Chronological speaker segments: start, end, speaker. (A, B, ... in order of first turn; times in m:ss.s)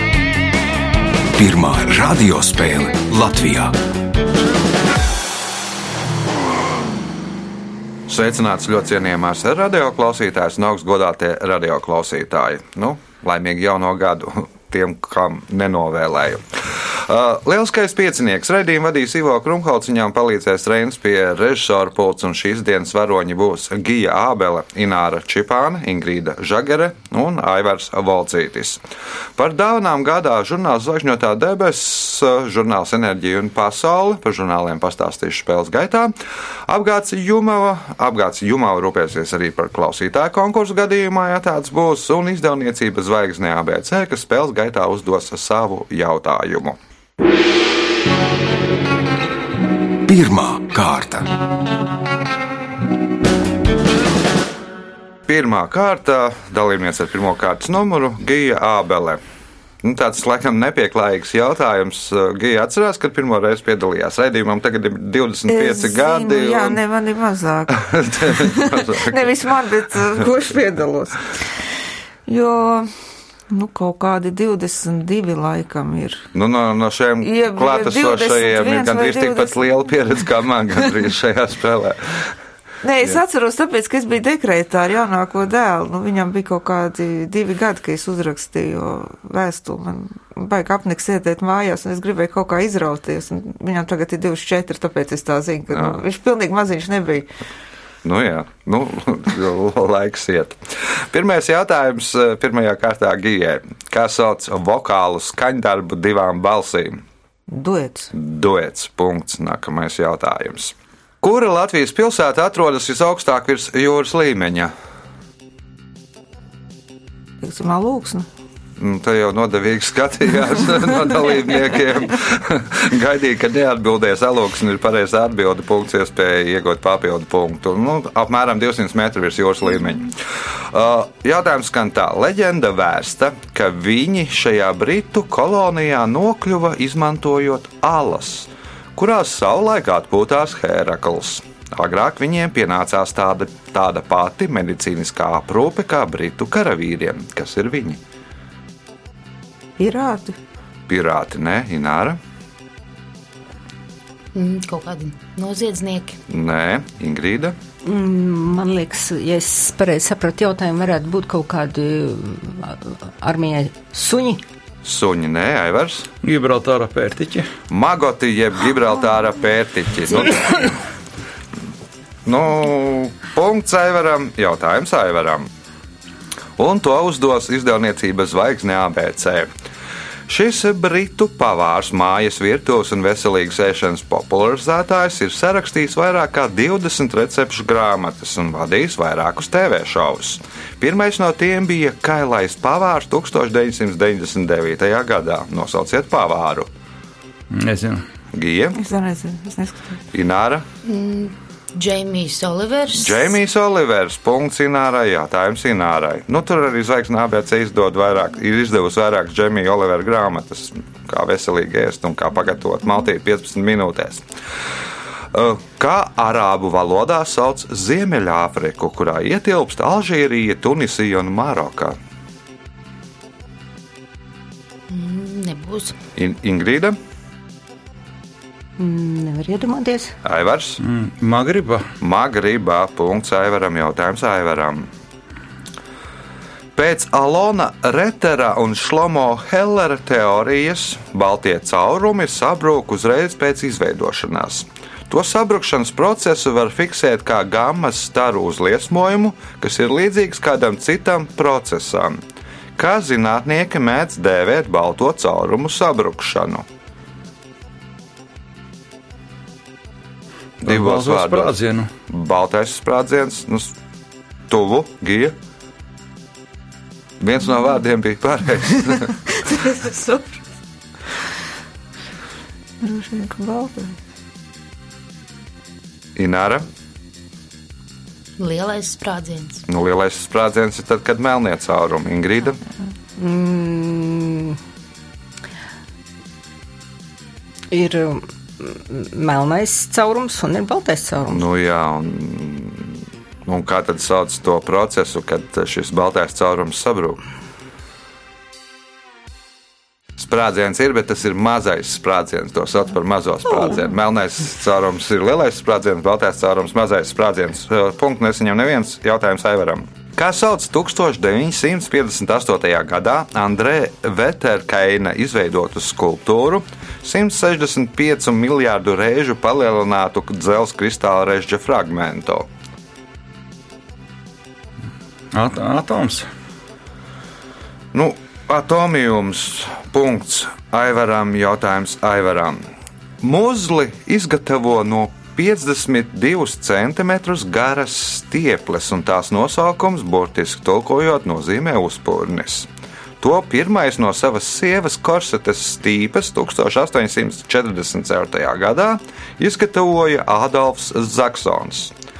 0:01.3-0:03.7 A
0:08.1-0:28.8 B
0:29.4-0:36.1 B
0:36.7-0:46.8 B
0:50.0-0:51.3 A
0:55.3-0:59.2 B
0:59.8-1:06.8 B
1:05.5-1:11.6 C
1:07.8-1:09.3 B
1:12.2-1:12.9 C
1:13.5-1:16.3 C
1:16.3-1:22.3 B
1:17.2-1:19.6 C
1:22.8-1:37.3 C
1:35.7-1:36.0 B
1:38.0-1:47.0 B
1:47.5-1:48.1 C
1:48.1-1:54.7 B
1:57.4-1:58.3 C
1:58.8-2:10.1 B
2:10.7-2:28.0 B
2:29.8-2:30.4 C
2:30.9-2:32.2 B
2:34.3-2:36.2 D
2:36.3-2:37.6 B
2:37.8-2:44.4 E
2:44.8-2:46.1 B
2:46.2-2:47.5 F
2:47.7-2:50.8 B
2:52.2-2:55.5 B
2:56.6-2:59.5 B
3:00.3-3:16.7 B
3:17.5-3:18.0 F
3:18.3-3:18.8 B
3:18.7-3:20.0 C
3:20.1-3:20.6 B
3:20.8-3:23.3 D
3:22.9-3:34.2 B
3:35.3-3:42.0 B
3:44.9-3:46.0 D
3:46.2-3:47.0 B
3:48.8-3:50.2 E
3:50.2-3:50.8 B
3:50.8-3:51.9 F
3:52.0-3:54.9 B
3:56.7-4:12.2 B
4:12.8-4:16.6 B
4:20.6-4:21.5 B
4:20.6-4:21.9 F
4:22.1-4:23.7 B
4:24.5-4:25.3 B
4:27.2-4:29.2 B
4:29.5-4:30.4 C
4:32.8-4:34.0 C
4:36.2-4:36.7 B
4:38.4-4:39.6 D
4:39.7-4:42.6 B
4:43.2-4:44.6 E
4:47.7-4:51.5 E
4:51.3-4:57.2 B
5:00.2-5:22.5 B
5:25.3-5:26.3 F
5:27.9-5:32.6 B
5:33.2-5:42.7 B
5:43.2-5:51.9 B